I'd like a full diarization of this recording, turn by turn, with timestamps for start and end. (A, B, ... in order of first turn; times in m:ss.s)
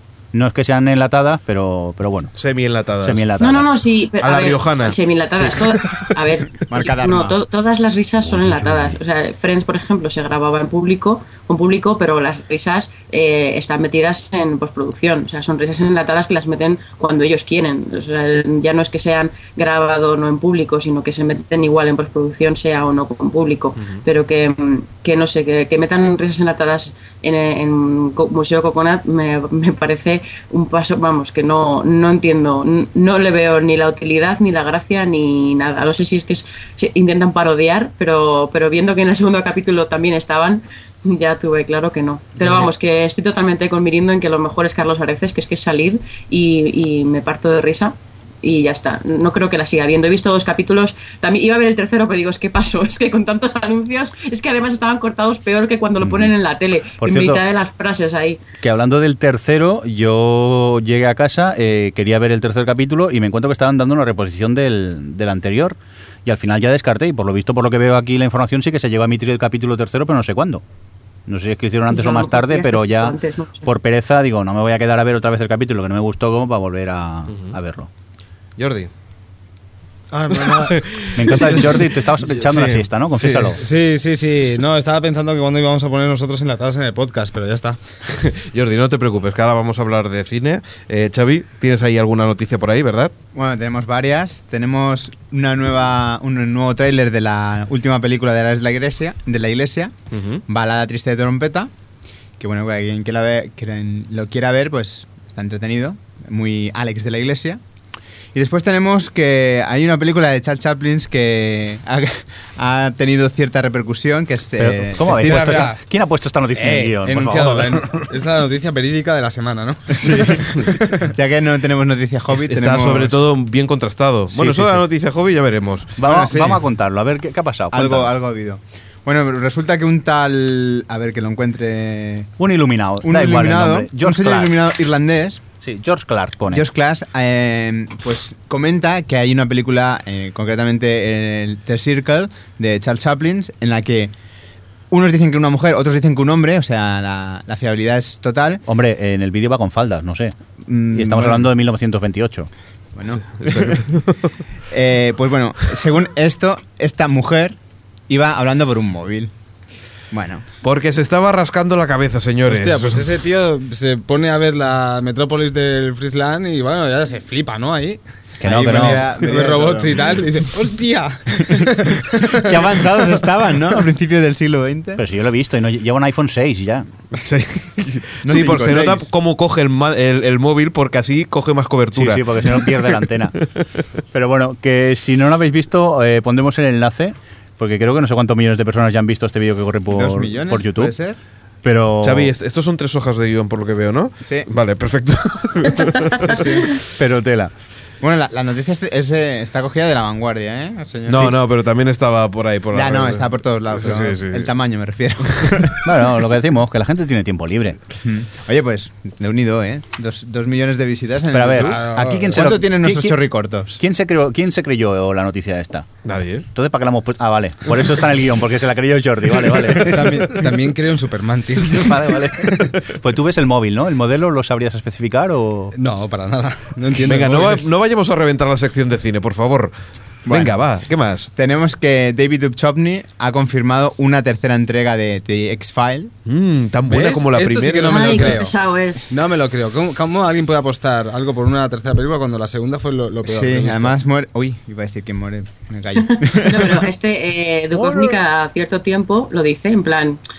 0:00.3-0:02.3 A
0:02.4-0:03.2 B
0:03.0-0:03.8 A
0:03.4-0:58.4 C
0:04.2-0:06.1 B
0:06.7-0:07.4 D
0:08.3-0:08.9 A
0:56.0-0:56.3 A
0:57.0-0:57.4 A
0:58.6-1:10.6 A
1:11.3-1:17.9 A
1:11.9-1:13.7 C
1:18.6-1:18.9 B
1:20.1-1:21.6 E
1:20.3-1:23.6 B
1:21.2-1:23.6 A
1:23.6-1:27.8 E
1:28.2-1:33.1 B
1:33.3-1:39.9 D
1:40.1-1:40.4 B
1:40.5-1:41.7 D
1:42.4-1:47.6 D
1:48.3-1:55.3 D
1:54.6-1:58.1 A
1:55.0-1:55.8 E
1:56.5-2:01.1 E
2:00.0-2:00.4 D
2:01.1-2:03.1 D
2:02.3-2:06.0 B
2:04.3-2:04.8 A
2:06.0-2:08.1 A
2:06.0-2:06.6 D
2:07.7-2:12.3 D
2:12.4-2:14.5 A
2:13.0-2:15.4 D
2:15.6-2:16.6 A
2:16.5-2:24.1 D
2:24.9-2:28.6 D
2:28.7-2:30.3 A
2:30.6-2:31.5 D
2:30.9-2:32.5 A
2:32.9-2:33.8 D
2:33.4-2:34.1 B
2:34.7-2:37.6 D
2:38.1-2:39.3 D
2:40.1-2:40.4 D
2:40.6-2:43.0 B
2:42.4-2:53.2 E
2:48.4-2:49.1 A
2:48.4-2:50.2 D
2:52.4-2:55.0 D
2:55.0-2:56.8 A
2:57.2-3:03.0 B
2:58.2-2:59.1 D
3:01.9-3:03.4 A
3:04.1-3:10.9 A
3:09.9-3:11.2 D
3:11.6-3:12.3 A
3:12.0-3:16.8 B
3:14.2-3:14.5 D
3:16.3-3:16.6 D
3:17.0-3:17.5 A
3:18.0-3:21.4 D
3:21.1-3:24.5 B
3:22.7-3:25.8 D
3:25.3-3:25.7 B
3:25.8-3:27.8 A
3:28.0-3:31.8 D
3:31.3-3:33.2 A
3:31.5-3:32.5 E
3:32.3-3:33.8 D
3:33.8-3:35.8 A
3:36.0-3:36.4 B
3:36.5-3:40.5 A
3:39.6-3:42.6 E
3:41.6-3:45.7 A
3:45.7-3:47.7 E
3:47.0-3:49.7 B
3:50.3-3:50.5 D
3:50.3-3:51.3 B
3:51.3-3:56.1 D
3:56.2-3:58.4 B
3:56.9-3:58.5 E
3:57.8-3:59.1 C
3:59.1-4:04.0 E
4:03.3-4:06.9 D
4:06.0-4:10.2 C
4:07.8-4:08.1 A